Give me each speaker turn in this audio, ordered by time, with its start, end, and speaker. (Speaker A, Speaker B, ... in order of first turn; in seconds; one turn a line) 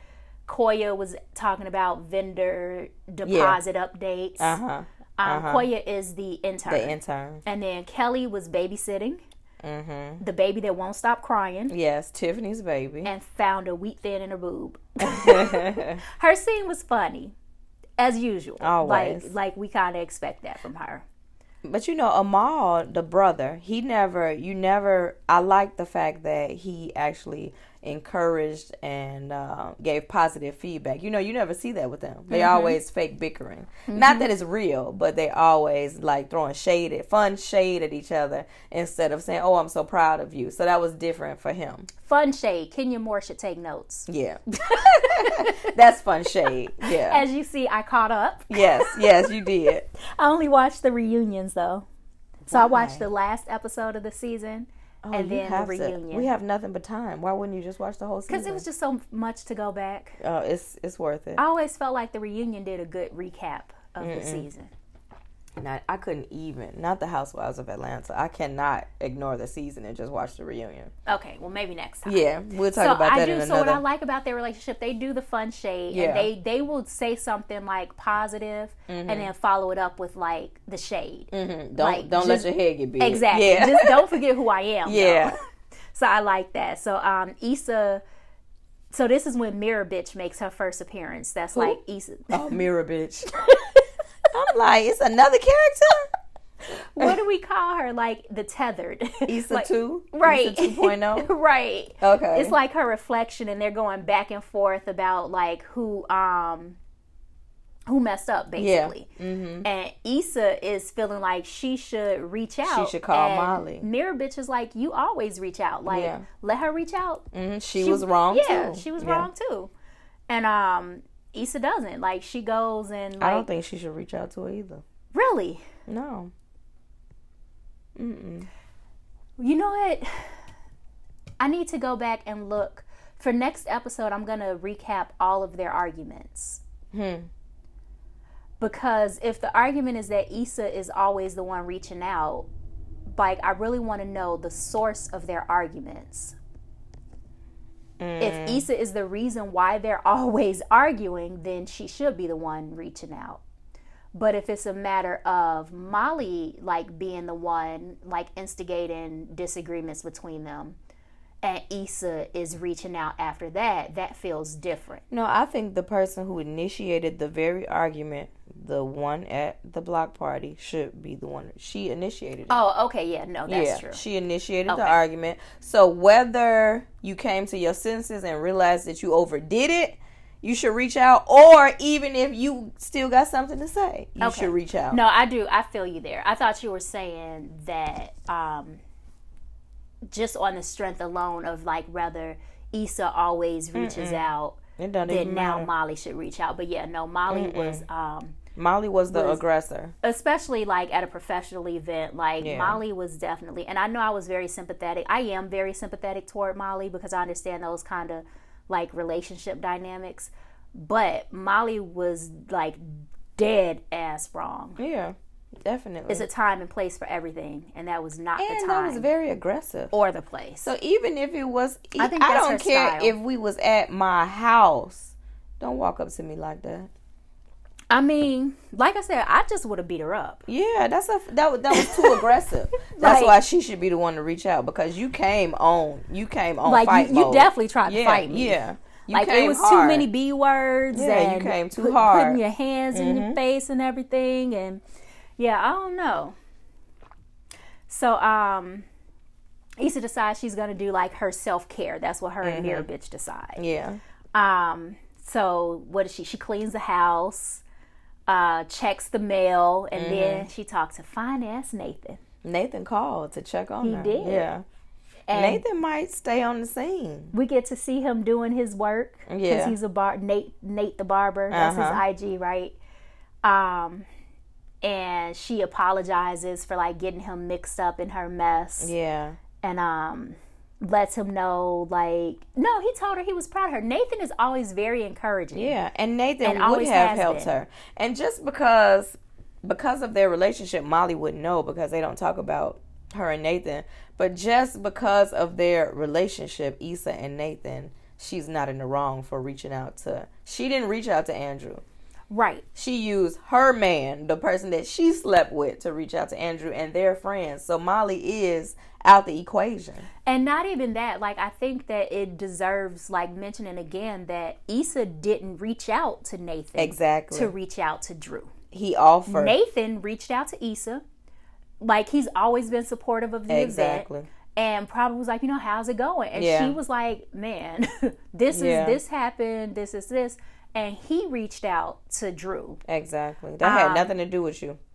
Speaker A: 0.5-4.6
Speaker B: 3.2-3.6
Speaker B: 4.4-5.7
Speaker A: 5.2-9.2
Speaker B: 6.7-7.4
Speaker B: 9.6-10.2
Speaker A: 10.2-11.7
Speaker B: 11.7-13.1
Speaker A: 13.1-17.4
Speaker B: 15.0-16.0
Speaker A: 18.0-21.1
Speaker B: 18.6-19.3
Speaker B: 21.6-41.9
Speaker A: 32.3-32.8
Speaker A: 33.9-34.3
Speaker A: 42.0-45.7
Speaker B: 44.1-47.2
Speaker A: 46.8-49.3
Speaker B: 48.5-49.9
Speaker A: 50.0-51.9
Speaker B: 52.5-53.0
Speaker A: 52.5-56.3
Speaker B: 55.0-58.6
Speaker A: 58.3-60.2
Speaker B: 60.2-61.4
Speaker A: 61.4-64.7
Speaker B: 64.0-64.5
Speaker B: 65.6-70.9
Speaker A: 71.1-82.5
Speaker B: 72.0-73.8
Speaker B: 75.9-76.3
Speaker B: 78.9-79.3
Speaker B: 81.3-84.2
Speaker A: 83.0-85.3
Speaker B: 84.8-85.4
Speaker A: 85.9-88.0
Speaker A: 88.9-92.6
Speaker B: 92.3-93.4
Speaker B: 94.3-96.1
Speaker A: 96.7-106.8
Speaker B: 99.3-101.3
Speaker B: 102.0-102.6
Speaker A: 107.9-109.1
Speaker B: 108.6-109.7
Speaker A: 109.6-117.3
Speaker B: 112.7-113.9
Speaker B: 115.9-116.2
Speaker B: 117.3-119.3
Speaker A: 117.8-119.7
Speaker A: 120.3-123.5
Speaker B: 123.2-124.8
Speaker A: 125.1-125.7
Speaker B: 125.9-126.3
Speaker B: 128.0-128.5
Speaker A: 129.4-130.4
Speaker A: 131.4-136.6
Speaker B: 136.9-137.3
Speaker A: 138.6-142.5
Speaker A: 143.1-146.4
Speaker B: 148.0-148.7
Speaker A: 148.2-153.4
Speaker A: 154.1-160.8
Speaker A: 161.4-165.0
Speaker B: 165.1-172.6
Speaker A: 172.5-174.0
Speaker B: 173.5-185.0
Speaker A: 174.7-175.0
Speaker A: 184.2-188.8
Speaker A: 190.1-198.4
Speaker B: 193.8-195.7
Speaker B: 197.3-197.9
Speaker B: 198.6-199.9
Speaker A: 199.1-199.4
Speaker A: 200.0-214.8
Speaker B: 202.4-202.8
Speaker B: 214.8-216.3
Speaker A: 216.1-219.1
Speaker B: 218.4-219.9
Speaker A: 219.9-220.7
Speaker B: 220.6-226.9
Speaker A: 222.0-223.2
Speaker A: 227.9-230.4
Speaker B: 230.5-240.1
Speaker A: 231.7-232.2
Speaker A: 232.8-233.4
Speaker A: 236.7-244.8
Speaker B: 240.9-242.4
Speaker B: 242.9-243.4
Speaker A: 245.4-246.3
Speaker A: 247.9-248.9
Speaker A: 249.8-253.6
Speaker B: 252.4-252.9
Speaker B: 253.6-254.0
Speaker A: 254.3-257.6
Speaker A: 258.3-262.2
Speaker B: 259.9-260.5
Speaker B: 262.4-264.6
Speaker A: 263.8-264.5
Speaker A: 265.3-265.6
Speaker B: 265.3-267.3
Speaker A: 267.3-272.8
Speaker B: 269.3-269.8
Speaker B: 271.5-272.0
Speaker A: 273.4-274.1
Speaker A: 274.8-278.9
Speaker B: 278.8-279.4
Speaker A: 279.6-285.8
Speaker B: 285.5-301.8
Speaker A: 286.4-287.5
Speaker A: 302.3-302.6
Speaker B: 302.8-310.1
Speaker A: 310.3-318.5
Speaker B: 316.8-317.5
Speaker B: 318.7-319.6
Speaker A: 319.3-321.0
Speaker A: 321.8-332.8
Speaker B: 323.5-324.3
Speaker B: 326.4-326.8
Speaker B: 328.5-329.0
Speaker B: 332.9-334.8
Speaker A: 333.6-334.1